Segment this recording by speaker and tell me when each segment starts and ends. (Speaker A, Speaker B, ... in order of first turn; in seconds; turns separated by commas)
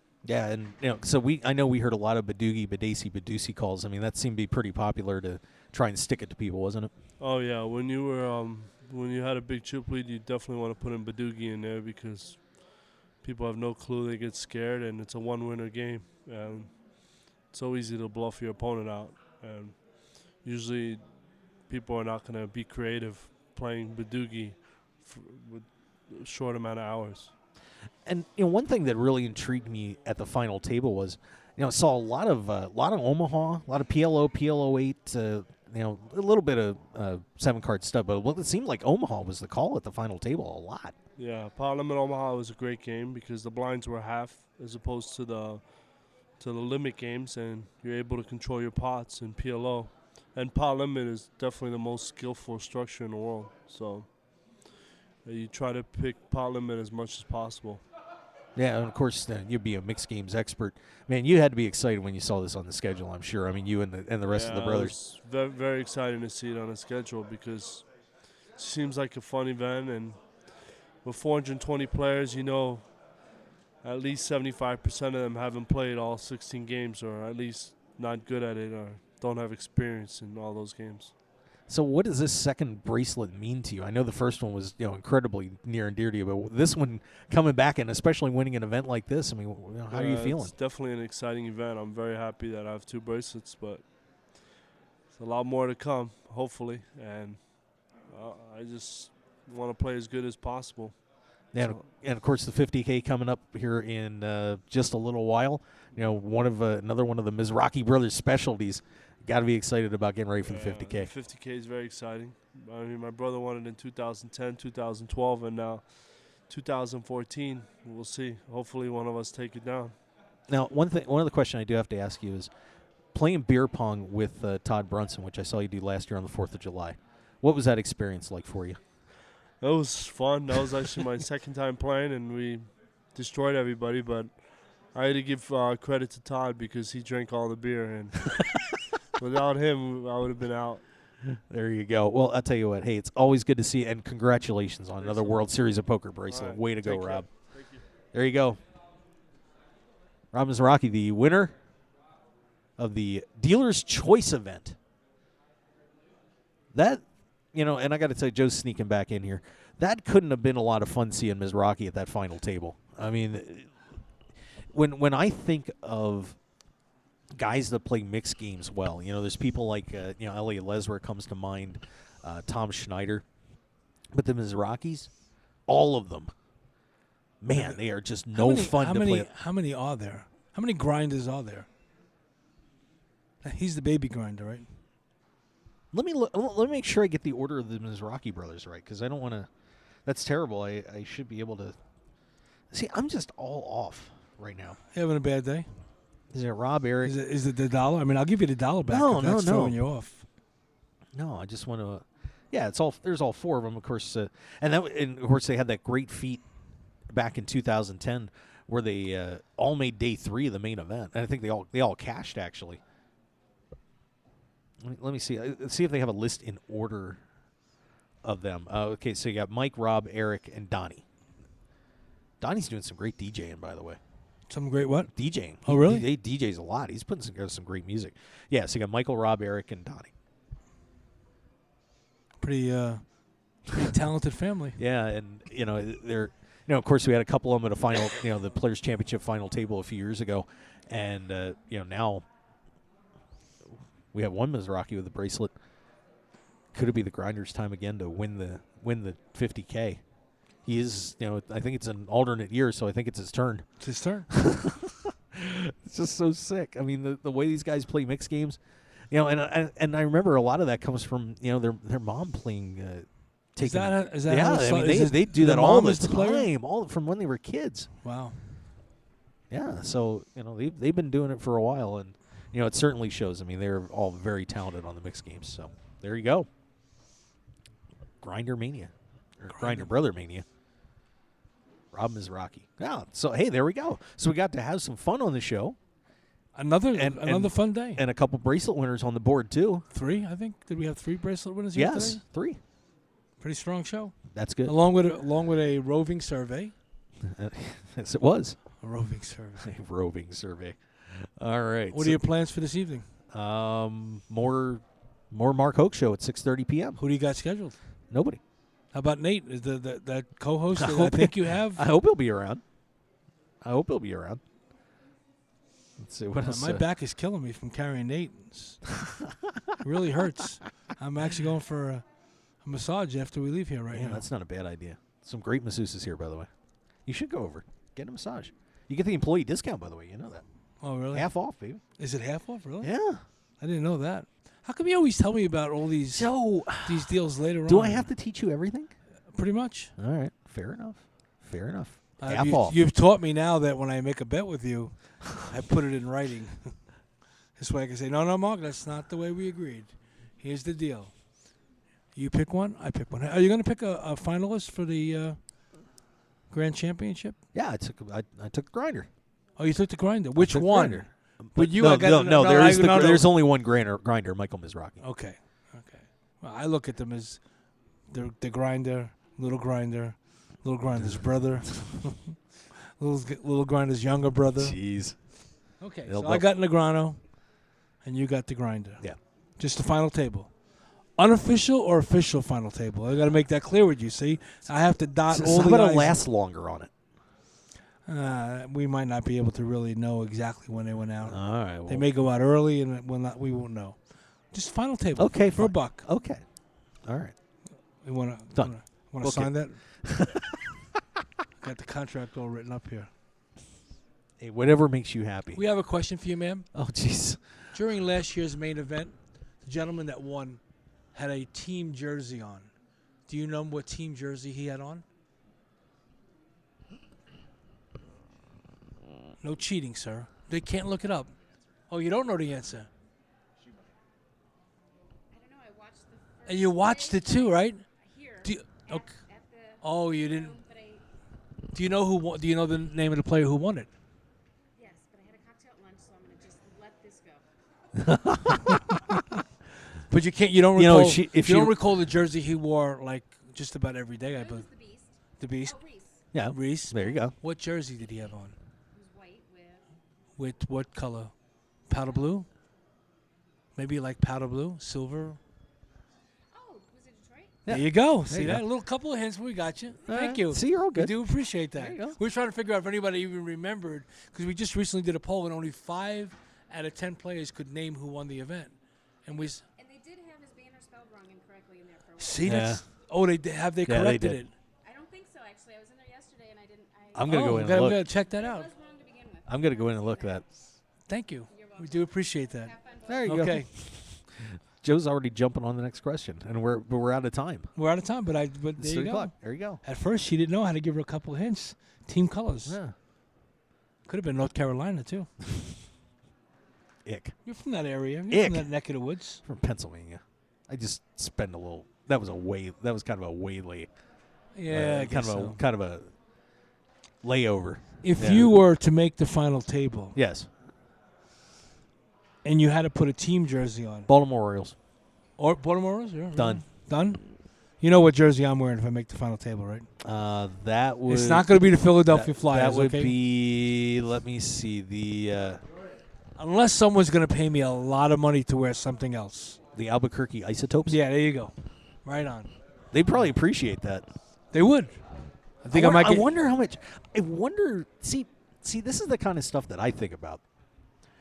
Speaker A: 0.2-6.9, Speaker B: 7.2-27.3, Speaker A: 28.1-40.9, Speaker B: 41.2-54.1, Speaker B: 55.2-57.9, Speaker A: 58.5-65.0, Speaker B: 64.3-67.9, Speaker B: 68.5-73.0, Speaker B: 73.8-81.1, Speaker A: 81.7-90.5, Speaker B: 89.9-93.8, Speaker B: 95.1-101.9, Speaker A: 101.5-111.1, Speaker B: 110.4-120.0, Speaker A: 120.5-122.5, Speaker A: 123.1-128.8, Speaker B: 129.6-138.4, Speaker B: 139.2-140.9, Speaker A: 141.3-148.6, Speaker B: 144.9-147.8, Speaker A: 150.3-151.6, Speaker A: 152.8-154.8, Speaker A: 156.7-163.8, Speaker A: 164.7-166.4, Speaker A: 167.3-173.3, Speaker A: 174.1-176.3, Speaker A: 177.4-179.3, Speaker C: 177.5-177.8, Speaker C: 178.3-181.7, Speaker C: 183.4-184.7, Speaker A: 185.9-189.5, Speaker A: 190.1-191.8, Speaker A: 192.7-194.8, Speaker C: 194.9-195.7, Speaker A: 196.3-197.2, Speaker C: 197.0-200.2, Speaker A: 198.9-199.8, Speaker A: 201.1-206.4, Speaker A: 207.1-212.8, Speaker A: 214.8-217.2, Speaker A: 218.2-221.0, Speaker A: 222.4-224.0, Speaker C: 224.5-226.1, Speaker A: 225.1-230.1, Speaker C: 232.4-234.8, Speaker A: 234.8-242.2, Speaker A: 244.1-245.5, Speaker A: 246.7-250.0, Speaker A: 250.6-267.9, Speaker C: 253.8-254.3, Speaker C: 263.6-266.5, Speaker C: 268.0-268.4, Speaker A: 269.5-276.5, Speaker A: 278.2-280.4, Speaker C: 279.5-279.9, Speaker A: 281.9-285.8, Speaker C: 286.5-288.0, Speaker A: 286.9-289.9, Speaker C: 289.9-292.2, Speaker A: 291.7-292.6, Speaker C: 293.4-296.7, Speaker A: 294.3-294.7, Speaker A: 297.2-298.8, Speaker C: 298.8-299.7, Speaker A: 299.6-302.2, Speaker C: 301.9-303.1, Speaker A: 303.3-307.0, Speaker C: 307.0-307.8, Speaker A: 308.1-308.4, Speaker C: 308.9-311.8, Speaker A: 310.8-312.6, Speaker A: 313.6-314.4, Speaker A: 316.0-316.8, Speaker C: 316.4-318.8, Speaker C: 319.8-322.1, Speaker C: 322.6-324.2, Speaker A: 323.9-331.8, Speaker C: 330.8-338.1, Speaker A: 332.8-333.2, Speaker A: 336.1-338.9, Speaker C: 339.3-339.9, Speaker A: 340.0-342.8, Speaker C: 342.2-347.0, Speaker C: 347.6-351.6, Speaker C: 352.1-355.4, Speaker C: 356.5-357.4, Speaker A: 357.5-359.1, Speaker C: 359.6-363.3, Speaker A: 360.4-365.0, Speaker C: 365.0-367.4, Speaker C: 368.1-372.4, Speaker A: 370.9-372.0, Speaker C: 373.0-374.8, Speaker A: 374.6-376.4, Speaker C: 375.8-377.4, Speaker C: 378.0-386.2, Speaker A: 385.3-386.9, Speaker C: 388.1-396.1, Speaker A: 391.2-392.1, Speaker A: 395.2-397.4, Speaker C: 398.0-400.1, Speaker A: 398.5-400.5, Speaker C: 401.6-403.1, Speaker A: 404.4-405.6, Speaker C: 405.6-406.7, Speaker A: 406.7-407.7, Speaker C: 407.7-410.6, Speaker C: 411.1-412.7, Speaker C: 413.3-415.1, Speaker C: 419.4-421.3, Speaker C: 421.9-422.9, Speaker D: 425.3-431.1, Speaker C: 426.4-427.9, Speaker C: 428.4-429.2, Speaker C: 429.8-430.6, Speaker C: 431.7-433.9, Speaker D: 434.8-437.4, Speaker A: 438.0-438.7, Speaker C: 440.1-444.7, Speaker A: 440.7-441.8, Speaker D: 444.3-446.4, Speaker C: 445.4-445.8, Speaker A: 446.3-447.4, Speaker C: 446.5-448.6, Speaker D: 447.0-447.2, Speaker D: 448.9-449.9, Speaker C: 450.4-451.3, Speaker C: 451.9-452.5, Speaker C: 453.8-455.4, Speaker D: 456.5-457.6, Speaker A: 457.6-458.6, Speaker C: 457.7-469.6, Speaker A: 460.1-462.2, Speaker D: 469.4-472.8, Speaker C: 472.2-474.6, Speaker A: 472.4-472.9, Speaker A: 473.9-474.4, Speaker D: 474.8-480.8, Speaker A: 477.1-478.1, Speaker C: 477.2-478.7, Speaker A: 479.4-480.4, Speaker C: 481.1-483.7, Speaker D: 481.5-483.6, Speaker A: 483.1-487.7, Speaker C: 487.8-492.8, Speaker A: 488.8-489.8, Speaker A: 492.7-492.9, Speaker C: 494.1-495.3, Speaker A: 497.1-497.4, Speaker C: 497.4-499.4, Speaker A: 498.3-503.9, Speaker C: 504.5-505.6, Speaker A: 504.7-506.2, Speaker A: 507.2-508.5, Speaker C: 508.0-510.2, Speaker A: 510.1-510.5, Speaker C: 512.4-514.1, Speaker A: 514.1-514.8, Speaker C: 515.4-519.9, Speaker A: 516.3-516.7, Speaker A: 520.0-525.6, Speaker C: 521.1-523.1, Speaker C: 526.4-529.6, Speaker A: 529.7-531.0, Speaker C: 530.9-532.5, Speaker A: 532.9-534.1, Speaker C: 534.5-535.0, Speaker C: 535.6-536.3, Speaker A: 535.7-540.4